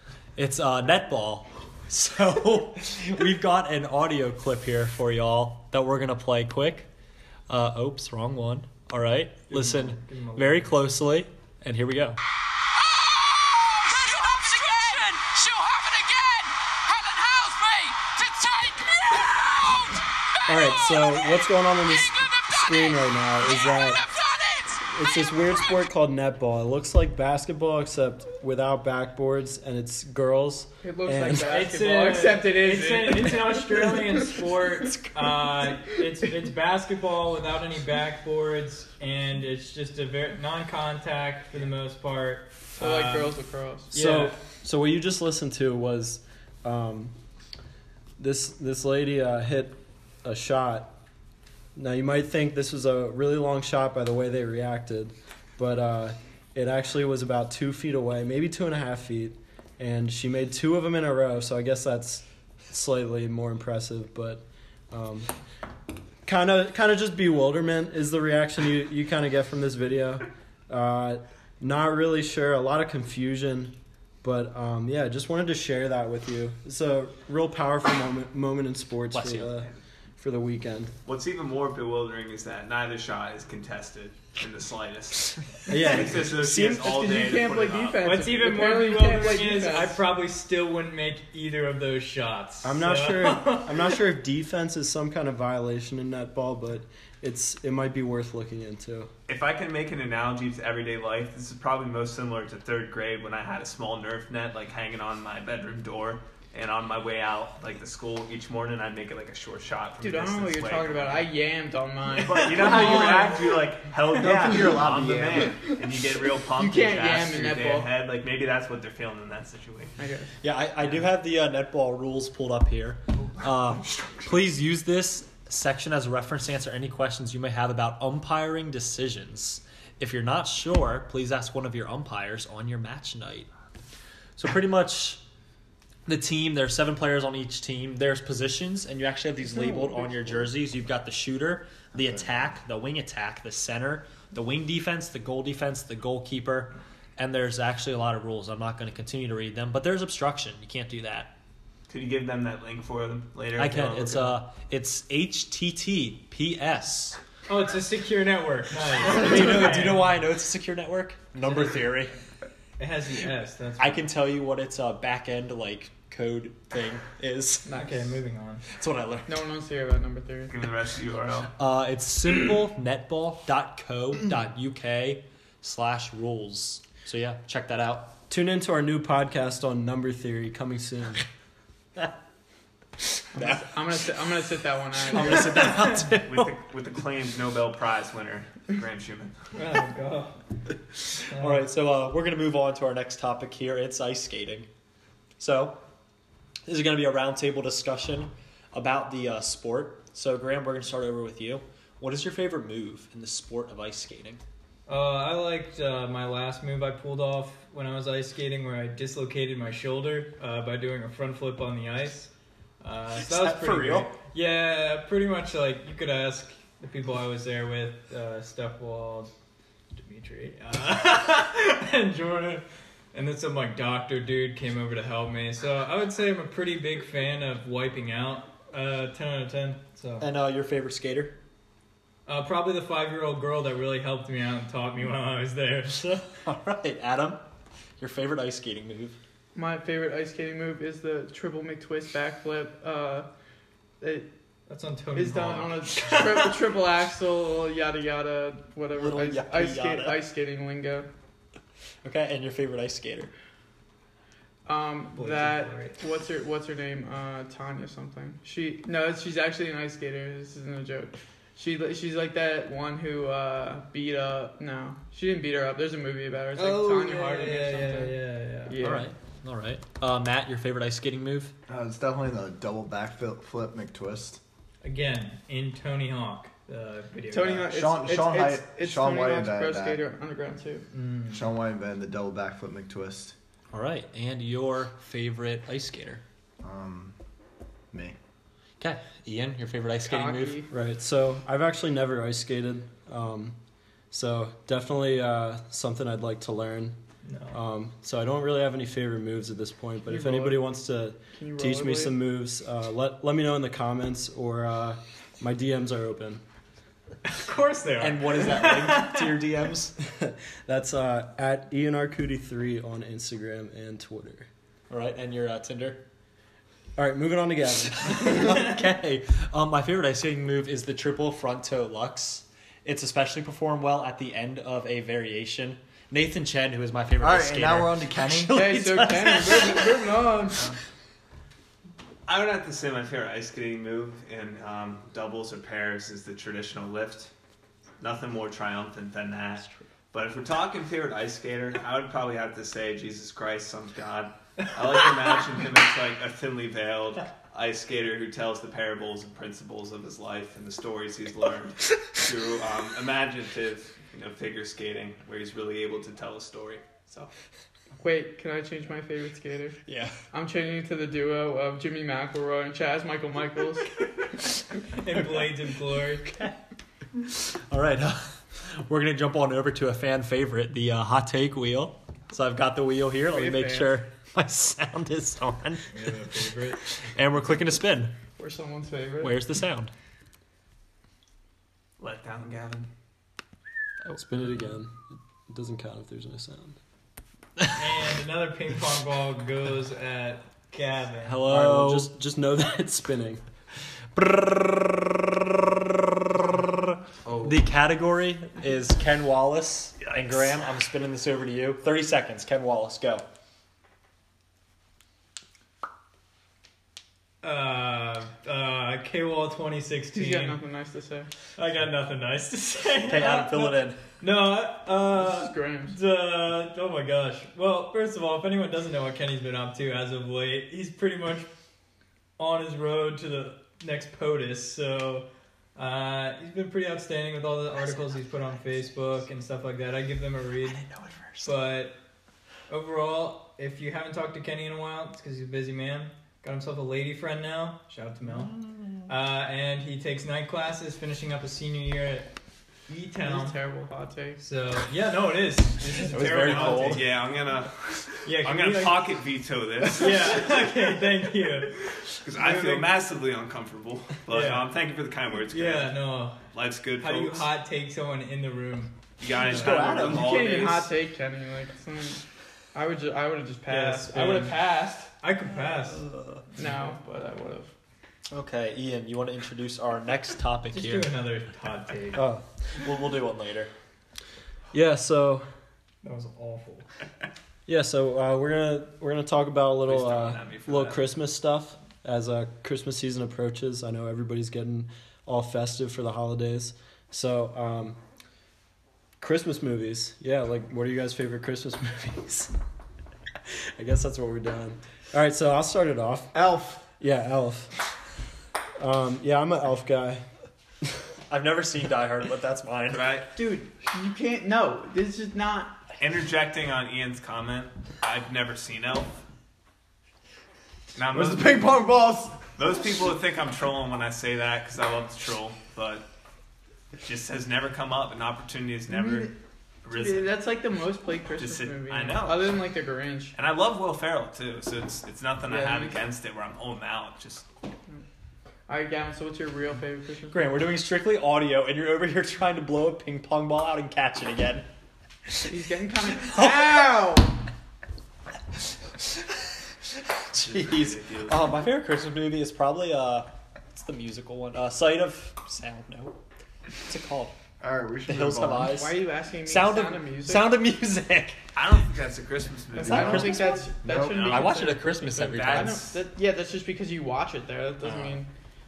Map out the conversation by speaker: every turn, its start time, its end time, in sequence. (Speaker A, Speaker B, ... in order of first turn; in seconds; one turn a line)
Speaker A: 0.4-6.9
Speaker A: 7.5-12.2
Speaker B: 9.5-10.9
Speaker C: 12.8-24.9
Speaker D: 20.5-24.0
Speaker D: 24.9-31.6
Speaker E: 30.8-33.9
Speaker B: 31.3-43.4
Speaker E: 42.8-43.9
Speaker B: 43.9-44.4
Speaker D: 43.9-47.1
Speaker D: 48.2-51.0
Speaker D: 51.8-65.3
Speaker D: 66.2-80.9
Speaker A: 79.1-79.6
Speaker F: 81.1-88.1
Speaker D: 85.7-87.0
Speaker E: 86.8-90.0
Speaker B: 88.0-94.0
Speaker D: 92.6-99.1
Speaker F: 99.3-111.3
Speaker E: 110.0-113.8
Speaker F: 112.2-119.9
Speaker A: 112.3-113.2
Speaker G: 114.1-115.6
Speaker E: 115.6-117.9
Speaker E: 120.0-120.3
Speaker A: 120.4-133.5
Speaker F: 123.4-124.2
Speaker A: 134.4-135.2
Speaker A: 136.1-151.3
Speaker E: 139.7-140.3
Speaker F: 151.9-154.4
Speaker A: 153.6-157.2
Speaker B: 157.5-160.2
Speaker A: 159.0-162.1
Speaker B: 162.8-164.1
Speaker A: 163.8-167.7
Speaker E: 167.7-168.2
Speaker B: 167.7-168.7
Speaker A: 168.7-169.4
Speaker E: 169.3-170.5
Speaker F: 170.5-171.5
Speaker A: 171.6-178.1
Speaker D: 178.3-181.2
Speaker A: 183.2-184.2
Speaker E: 183.3-185.8
Speaker A: 185.1-186.6
Speaker F: 186.2-189.4
Speaker B: 189.6-190.4
Speaker A: 191.1-194.7
Speaker B: 191.3-191.6
Speaker A: 195.4-195.8
Speaker A: 196.7-204.4
Speaker B: 204.9-219.3
Speaker A: 213.2-214.1
Speaker B: 220.0-230.3
Speaker A: 230.2-231.4
Speaker B: 232.3-236.1
Speaker A: 236.0-237.4
Speaker A: 238.0-239.2
Speaker E: 239.6-243.3
Speaker E: 244.0-244.3
Speaker B: 244.7-246.6
Speaker E: 245.1-251.1
Speaker A: 248.9-250.3
Speaker A: 252.0-253.3
Speaker E: 254.7-269.1
Speaker B: 255.2-255.9
Speaker B: 266.6-268.8
Speaker A: 268.8-271.5
Speaker G: 271.7-274.4
Speaker B: 274.8-277.7
Speaker E: 277.3-280.9
Speaker G: 277.7-280.0
Speaker B: 280.9-281.4
Speaker G: 281.3-283.4
Speaker A: 283.7-286.2
Speaker G: 286.6-287.1
Speaker A: 288.8-290.6
Speaker E: 290.0-290.7
Speaker D: 290.7-293.6
Speaker D: 294.1-297.0
Speaker B: 297.2-297.6
Speaker D: 297.5-306.4
Speaker E: 300.1-300.7
Speaker E: 301.3-302.2
Speaker B: 307.2-309.3
Speaker A: 308.0-309.9
Speaker D: 310.1-314.5
Speaker A: 314.9-316.0
Speaker D: 317.0-318.6
Speaker A: 317.9-330.3
Speaker G: 327.2-328.6
Speaker E: 328.5-330.7
Speaker F: 332.3-337.3
Speaker F: 338.0-357.3
Speaker E: 358.0-359.8
Speaker A: 359.9-360.2
Speaker E: 360.3-363.9
Speaker B: 364.9-366.3
Speaker A: 365.1-366.6
Speaker A: 367.2-375.9
Speaker E: 373.3-373.9
Speaker B: 375.9-376.8
Speaker A: 377.1-378.1
Speaker E: 378.4-379.4
Speaker A: 379.2-379.9
Speaker F: 382.0-382.9
Speaker D: 384.1-386.8
Speaker B: 387.8-391.4
Speaker A: 391.2-392.1
Speaker D: 391.4-393.4
Speaker A: 394.2-403.2
Speaker B: 407.4-410.6
Speaker E: 410.1-411.3
Speaker B: 411.6-421.5
Speaker A: 413.1-414.0
Speaker E: 415.1-416.0
Speaker B: 422.4-430.8
Speaker A: 427.8-429.0
Speaker A: 430.6-431.6
Speaker B: 431.4-432.0
Speaker B: 432.7-438.5
Speaker A: 438.4-439.1
Speaker B: 439.1-442.3
Speaker B: 442.9-443.6
Speaker E: 443.2-444.4
Speaker B: 444.4-447.1
Speaker A: 446.1-447.1
Speaker F: 446.2-450.4
Speaker B: 448.2-449.1
Speaker B: 449.9-451.8
Speaker F: 452.2-457.5
Speaker B: 452.3-452.9
Speaker B: 454.3-454.7
Speaker B: 455.5-456.4
Speaker B: 457.0-459.8
Speaker F: 459.2-460.9
Speaker A: 459.4-460.3
Speaker E: 459.7-462.2
Speaker E: 462.7-465.1
Speaker B: 463.7-464.6
Speaker B: 465.1-466.0
Speaker A: 465.9-466.4
Speaker E: 466.6-467.7
Speaker A: 468.3-471.1
Speaker B: 470.7-472.2
Speaker D: 472.1-472.4
Speaker A: 472.8-473.7
Speaker D: 474.7-475.4
Speaker B: 476.0-476.9
Speaker D: 477.7-488.0
Speaker F: 479.9-481.0
Speaker D: 489.2-492.5
Speaker D: 493.8-496.3
Speaker G: 496.3-496.9
Speaker D: 497.0-497.7
Speaker D: 498.8-500.2
Speaker A: 501.3-503.1
Speaker F: 502.9-503.3
Speaker E: 503.4-505.8
Speaker F: 506.0-509.2
Speaker F: 510.9-511.8
Speaker G: 511.1-512.5
Speaker F: 512.6-516.1
Speaker F: 517.0-519.3
Speaker E: 518.9-519.4
Speaker F: 519.8-520.3
Speaker E: 519.9-523.4
Speaker F: 521.4-522.6
Speaker F: 523.4-527.5
Speaker E: 525.5-526.0
Speaker E: 528.7-530.5
Speaker A: 530.3-534.7
Speaker A: 535.3-537.1
Speaker E: 535.5-537.4
Speaker A: 539.0-539.3
Speaker A: 540.2-546.2
Speaker F: 540.4-541.6
Speaker A: 546.8-547.4
Speaker G: 547.6-548.8
Speaker A: 548.1-551.5
Speaker E: 548.6-550.6
Speaker F: 551.5-554.6
Speaker E: 552.8-558.3
Speaker A: 552.8-555.8
Speaker G: 552.8-554.5
Speaker F: 555.2-556.0